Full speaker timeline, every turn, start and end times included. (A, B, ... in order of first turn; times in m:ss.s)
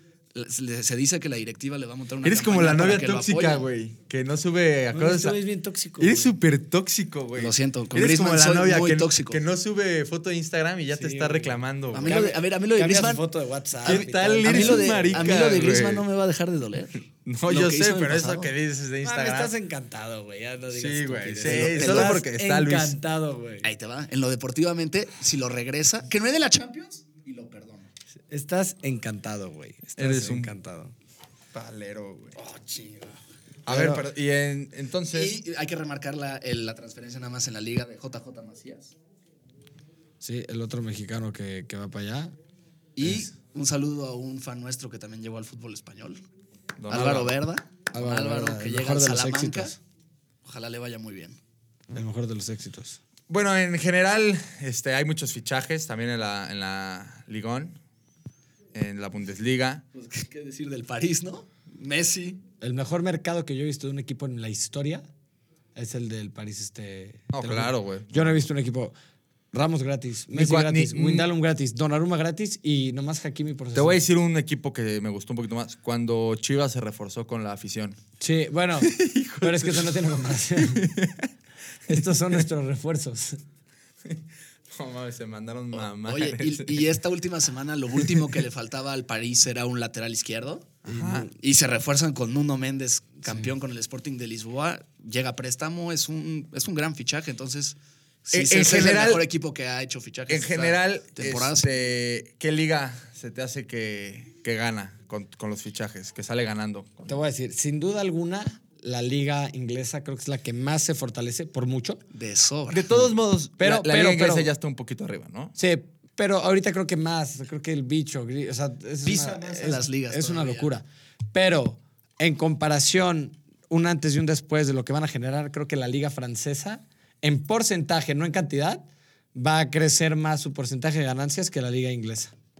0:00.3-0:03.7 A
0:02.2-0:05.4 B
0:04.9-0:06.4 C
0:06.0-0:12.2 B
0:07.4-0:09.4 A
0:10.9-0:15.4 C
0:11.9-0:13.2 A
0:13.8-0:18.5 A
0:13.8-0:16.0 B
0:17.2-0:19.5 B
0:19.0-0:23.7 C
0:20.7-0:23.0 B
0:21.4-0:22.2 A
0:23.6-0:27.9 A
0:28.3-0:30.9 C
0:30.0-0:30.5 B
0:31.5-0:32.4 B
0:32.4-0:33.2 A
0:33.6-0:35.3 B
0:33.7-0:34.0 C
0:35.1-0:38.9 A
0:40.2-0:42.4 C
0:43.0-0:46.2 A
0:43.0-0:43.3 C
0:46.8-0:47.4 B
0:46.9-0:49.7 A
0:47.9-0:49.8 C
0:50.4-0:51.4 A
0:51.9-0:53.0 C
0:53.3-0:57.8 B
0:58.7-0:59.8 B
0:59.9-1:02.4 A
1:02.6-1:05.1 C
1:05.7-1:08.9 C
1:07.3-1:08.5 B
1:09.5-1:14.0 C
1:10.3-1:11.3 B
1:13.7-1:18.0 B
1:18.2-1:20.9 C
1:18.8-1:21.3 B
1:21.9-1:23.4 C
1:24.0-1:26.9 B
1:25.7-1:30.8 A
1:30.8-1:31.3 B
1:30.9-1:31.3 C
1:31.3-1:41.7 A
1:38.3-1:39.2 B
1:40.3-1:47.2 B
1:47.1-1:52.0 C
1:52.1-1:53.0 A
1:52.7-1:55.6 B
1:53.6-1:54.5 C
1:55.6-2:12.3 C
1:59.0-2:00.7 A